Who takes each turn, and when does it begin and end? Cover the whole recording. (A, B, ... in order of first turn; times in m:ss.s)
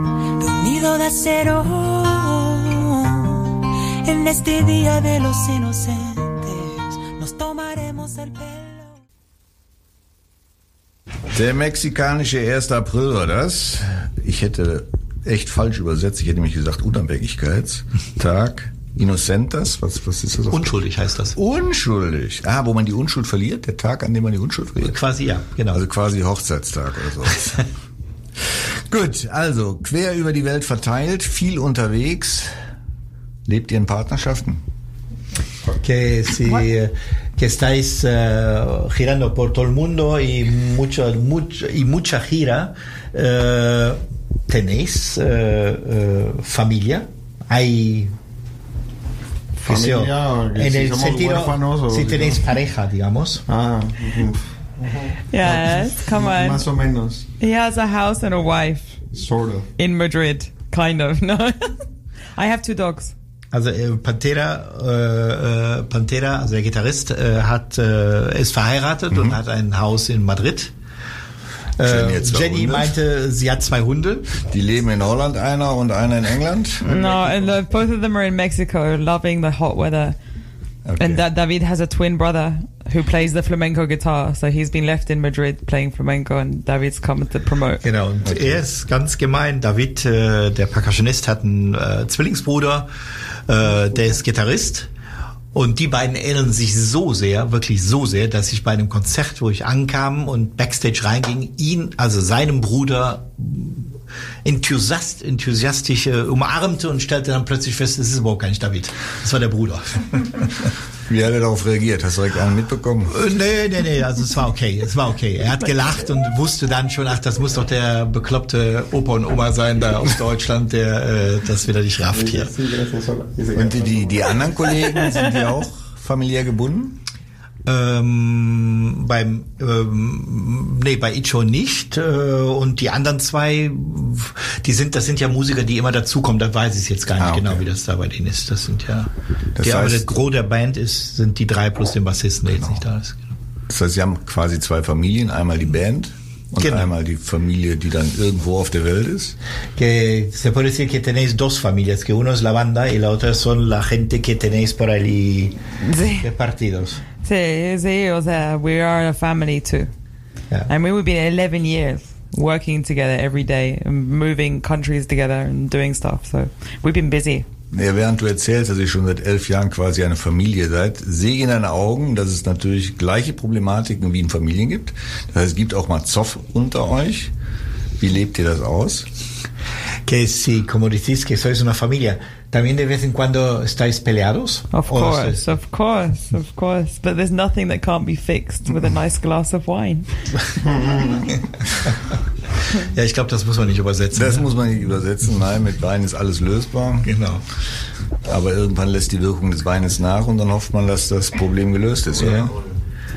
0:00.4-0:03.4 A
0:04.0-0:08.9 A
0:11.3-0:20.7 B
0:20.5-0:21.4 C
0:21.4-0:25.0 B
0:24.8-0:25.8 C
0:25.7-0:27.6 B
0:28.5-0:32.5 B
0:33.4-0:34.6 B
0:35.8-0:48.1 C
0:49.6-0:52.5 D
0:49.6-0:53.4 C
0:53.5-0:57.2 D
0:55.3-0:56.6 E
0:57.4-0:59.0 E
0:59.1-0:59.7 D
0:59.8-1:03.1 E
1:03.5-1:10.7 C
1:09.1-1:09.4 B
1:11.8-1:14.4 C
1:11.8-1:13.0 B
1:14.5-1:16.9 B
1:16.8-1:20.2 E
1:20.8-1:21.2 B
1:21.0-1:27.8 E
1:27.8-1:32.9 C
1:28.2-1:28.6 B
1:33.5-1:34.9 C
1:35.5-1:43.9 C
1:44.4-1:50.7 C
1:51.1-1:53.2 B
1:53.1-2:02.5 C
2:02.1-2:04.4 D
2:03.5-2:07.0 B
2:05.0-2:05.3 E
2:07.6-2:23.3 C
2:17.2-2:17.6 B
2:19.6-2:20.1 B
2:23.7-2:29.4 B
2:26.6-2:26.9 C
2:29.8-2:35.6 C
2:35.8-2:36.3 E
2:36.2-2:37.0 C
2:37.2-2:39.9 E
2:40.7-2:47.4 E
2:47.7-2:57.3 B
2:58.0-2:59.1 B
3:00.0-3:05.4 C
3:04.7-3:10.1 E
3:12.8-3:14.5 C
3:14.1-3:17.1 B
3:17.0-3:17.4 C
3:18.2-3:22.6 B
3:22.2-3:22.5 C